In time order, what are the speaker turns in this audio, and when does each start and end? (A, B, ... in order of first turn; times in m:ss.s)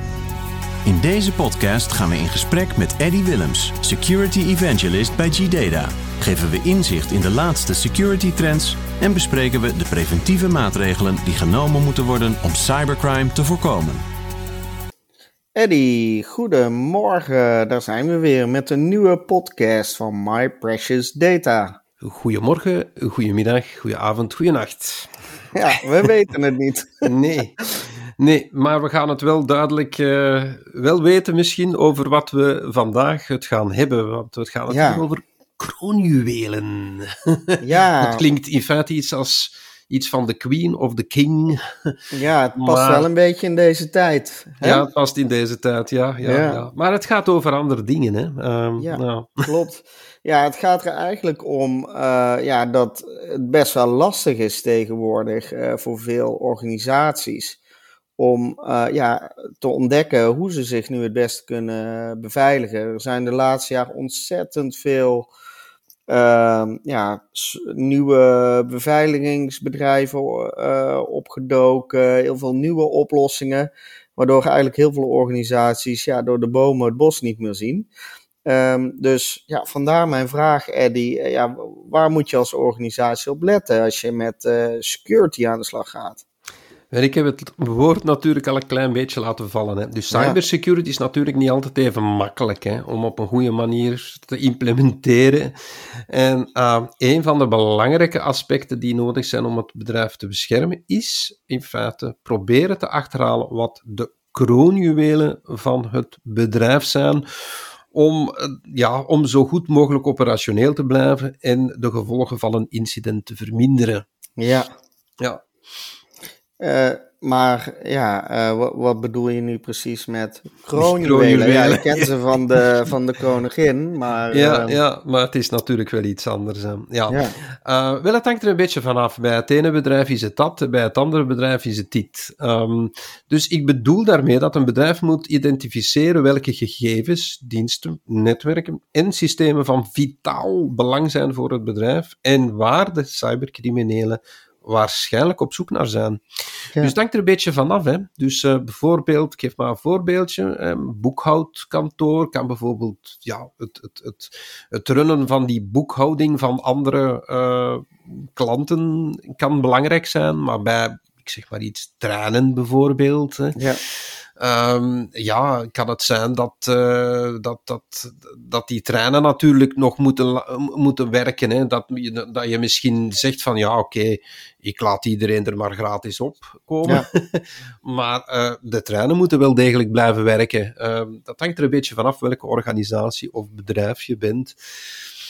0:00.8-0:14.0 A
0:15.5-0:21.8 B
0:22.0-0:25.1 C
0:25.5-0:27.1 B
0:27.0-0:41.9 C
0:34.7-0:35.0 B
0:37.6-0:38.2 B
0:42.1-0:44.8 B
0:42.6-0:43.1 C
0:44.6-0:49.4 C
0:46.2-0:46.6 B
0:48.8-0:57.6 B
0:58.2-1:05.3 B
1:06.1-1:17.9 B
1:18.4-1:26.2 B
1:26.9-1:54.0 C
1:30.1-1:30.4 B
1:54.4-1:54.7 B
1:56.6-2:04.8 B
2:00.8-2:02.7 C
2:04.3-2:26.2 C
2:07.1-2:07.4 B
2:26.8-3:04.9 C
2:43.6-2:43.8 B